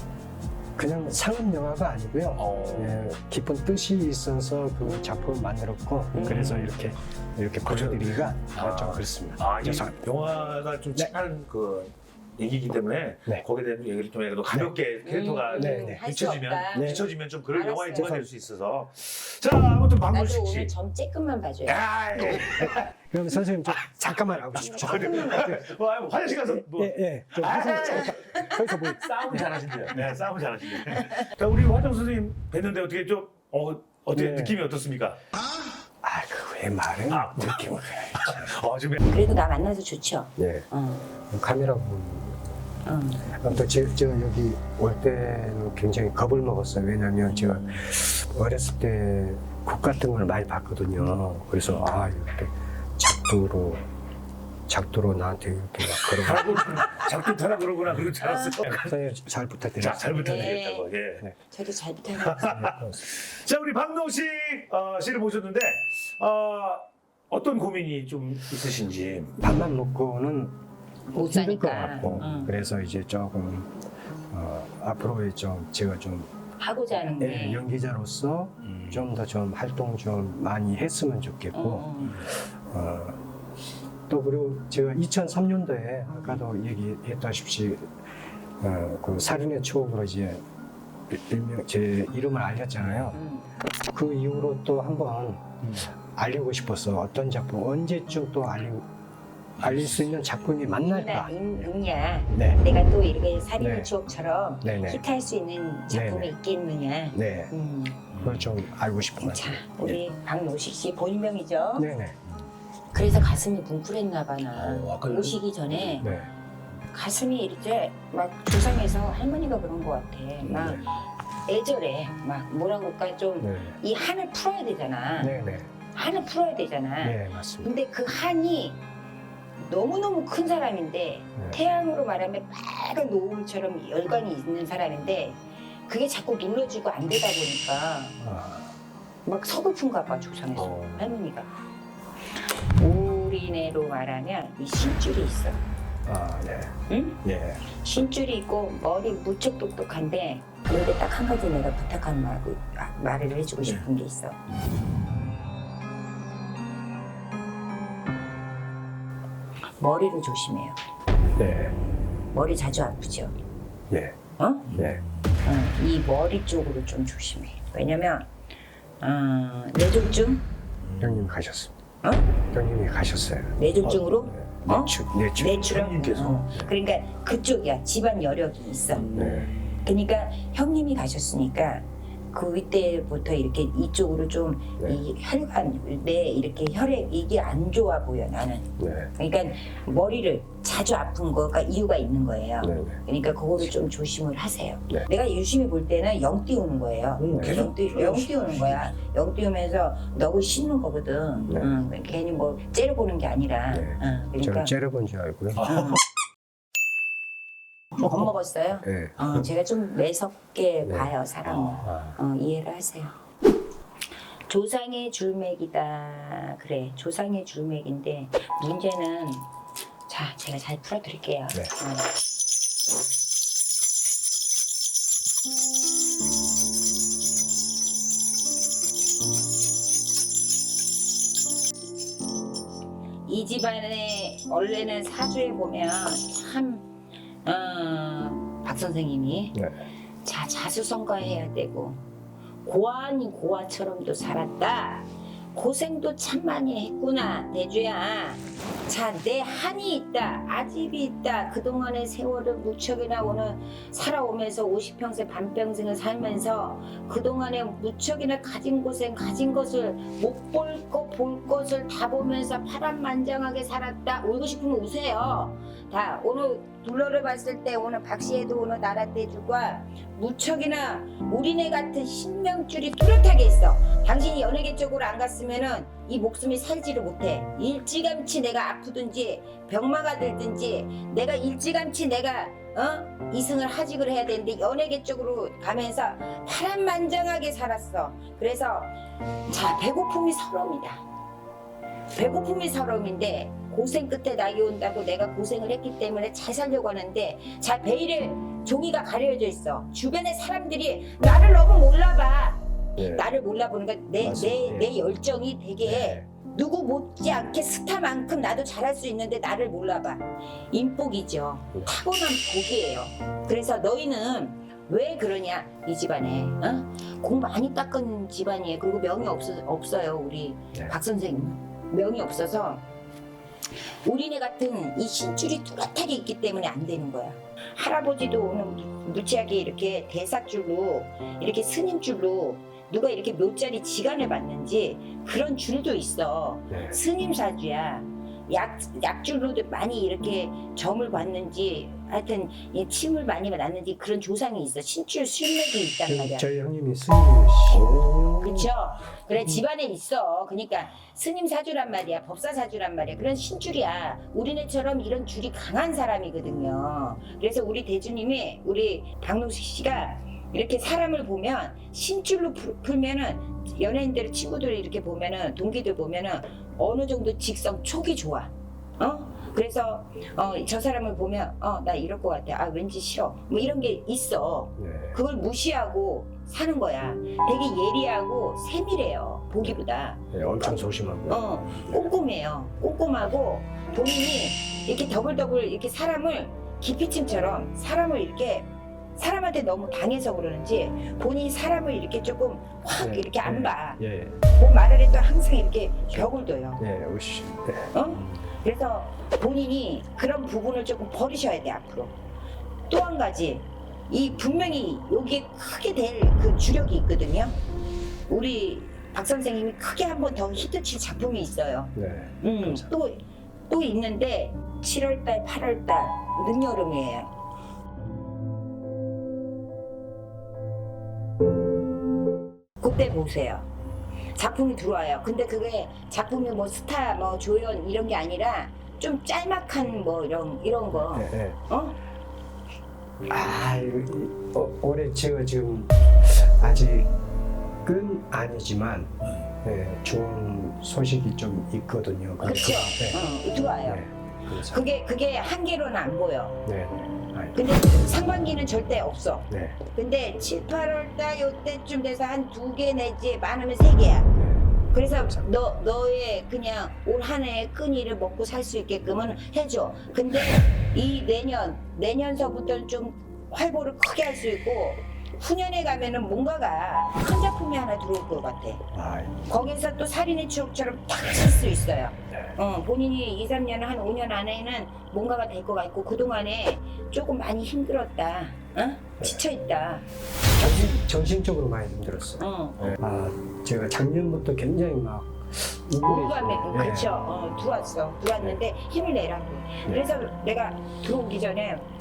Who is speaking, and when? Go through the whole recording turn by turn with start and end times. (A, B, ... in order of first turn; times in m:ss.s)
0:00.8-0:10.0 A
0:02.4-0:03.0 B
0:06.1-0:06.7 C
0:06.2-0:06.7 B
0:07.6-0:20.7 B
0:14.5-0:14.7 A
0:15.0-0:18.2 C
0:15.5-0:16.0 A
0:16.7-0:17.1 A
0:20.1-0:21.8 C
0:21.7-0:22.9 B
0:23.1-0:25.7 A
0:24.0-0:35.2 B
0:24.6-0:25.5 C
0:26.7-0:29.6 A
0:34.1-0:34.6 A
0:36.0-0:38.5 A
0:37.1-0:39.0 B
0:39.0-0:41.0 C
0:40.4-0:40.7 A
0:41.3-0:42.4 A
0:42.8-0:43.3 C
0:43.3-0:53.8 A
0:51.6-0:51.9 B
0:54.7-0:56.7 A
0:55.9-0:59.0 B
0:58.2-0:58.6 C
0:58.7-1:00.4 A
0:59.8-1:01.2 B
1:00.1-1:00.9 C
1:01.5-1:02.6 C
1:02.1-1:09.4 B
1:02.5-1:03.0 A
1:09.4-1:10.6 A
1:11.1-1:12.6 C
1:11.1-1:13.7 A
1:14.3-1:16.3 A
1:16.6-1:17.6 C
1:17.2-1:23.2 A
1:18.6-1:19.1 B
1:21.5-1:22.2 C
1:24.1-1:27.9 A
1:28.6-1:30.4 A
1:31.1-1:33.2 A
1:32.8-1:33.2 B
1:33.1-1:33.5 C
1:33.9-1:38.8 A
1:35.6-1:35.9 B
1:39.6-1:40.4 B
1:39.6-1:41.4 A
1:40.8-1:48.0 C
1:42.3-1:42.6 A
1:43.6-1:43.9 A
1:44.6-1:45.0 A
1:45.9-1:46.3 A
1:47.1-1:47.5 A
1:48.1-1:48.6 B
1:48.2-1:49.6 A
1:49.2-1:51.9 C
1:51.8-1:52.2 A
1:52.9-1:56.1 C
1:54.5-1:56.1 B
1:56.0-1:56.3 A
1:56.9-2:05.4 C
2:00.4-2:00.8 A
2:03.4-2:03.8 A
2:05.2-2:05.7 A
2:05.9-2:08.8 C
2:07.0-2:07.7 A
2:09.6-2:18.2 C
2:18.2-2:18.7 A
2:19.2-2:21.5 C
2:22.6-2:25.6 C
2:26.0-2:27.6 A
2:26.9-2:34.4 C
2:39.8-2:40.8 C
2:41.4-2:41.8 A
2:42.3-2:43.3 C
2:43.9-2:44.2 A
2:44.4-2:44.7 C
2:44.7-2:45.0 A
2:44.7-2:45.0 B
2:45.4-2:48.3 C
2:49.0-2:50.4 C
2:50.8-2:51.3 B
2:51.0-2:51.7 A
2:52.0-2:52.3 C
2:52.5-2:53.5 A
2:53.6-2:59.2 C
2:54.2-2:55.8 A
2:55.6-2:56.4 B
2:59.1-2:59.6 B
2:59.1-2:59.5 A
2:59.8-3:24.7 C
3:08.8-3:09.1 A
3:12.6-3:13.0 A
3:17.2-3:18.8 B
3:17.3-3:17.7 A
3:21.5-3:21.7 A
3:23.7-3:25.8 A
3:25.6-3:26.0 B
3:25.6-3:26.0 C
3:27.9-3:33.1 C
3:28.8-3:29.4 A
3:30.8-3:31.1 A
3:31.8-3:32.2 A
3:34.5-3:39.5 C
3:40.1-3:42.1 C
3:53.2-3:56.8 C
3:57.4-3:59.6 C
3:59.6-3:59.9 A
4:00.2-4:02.0 C
4:02.6-4:48.9 C
4:49.5-4:51.0 C
4:52.1-5:22.8 C
5:03.0-5:03.2 A
5:04.2-5:04.9 A
5:05.8-5:06.3 A
5:23.8-5:46.5 C
5:36.7-5:37.0 A
5:46.0-5:48.7 A
5:47.7-6:20.2 C
6:14.8-6:15.2 A
6:20.3-6:22.1 A
6:21.3-6:36.8 C
6:33.0-6:34.4 A
6:36.1-6:37.9 A
6:37.9-6:42.1 C
6:42.9-6:47.6 C
6:48.3-6:57.3 C
6:52.0-6:52.9 A
7:02.8-7:03.7 C
7:04.3-7:12.0 C
7:10.9-7:11.6 A
7:13.3-7:17.1 A
7:17.8-7:23.3 A
7:22.4-7:24.0 C
7:23.8-7:24.9 A
7:24.6-7:26.6 C
7:26.6-7:27.6 A
7:27.5-7:34.3 C
7:29.5-7:29.8 A
7:34.3-7:35.4 A
7:34.9-7:48.8 C
7:48.9-7:49.4 A
7:49.5-8:00.1 C
8:00.5-8:02.4 A
8:02.4-8:02.9 C
8:02.9-8:07.1 A
8:06.0-8:11.9 C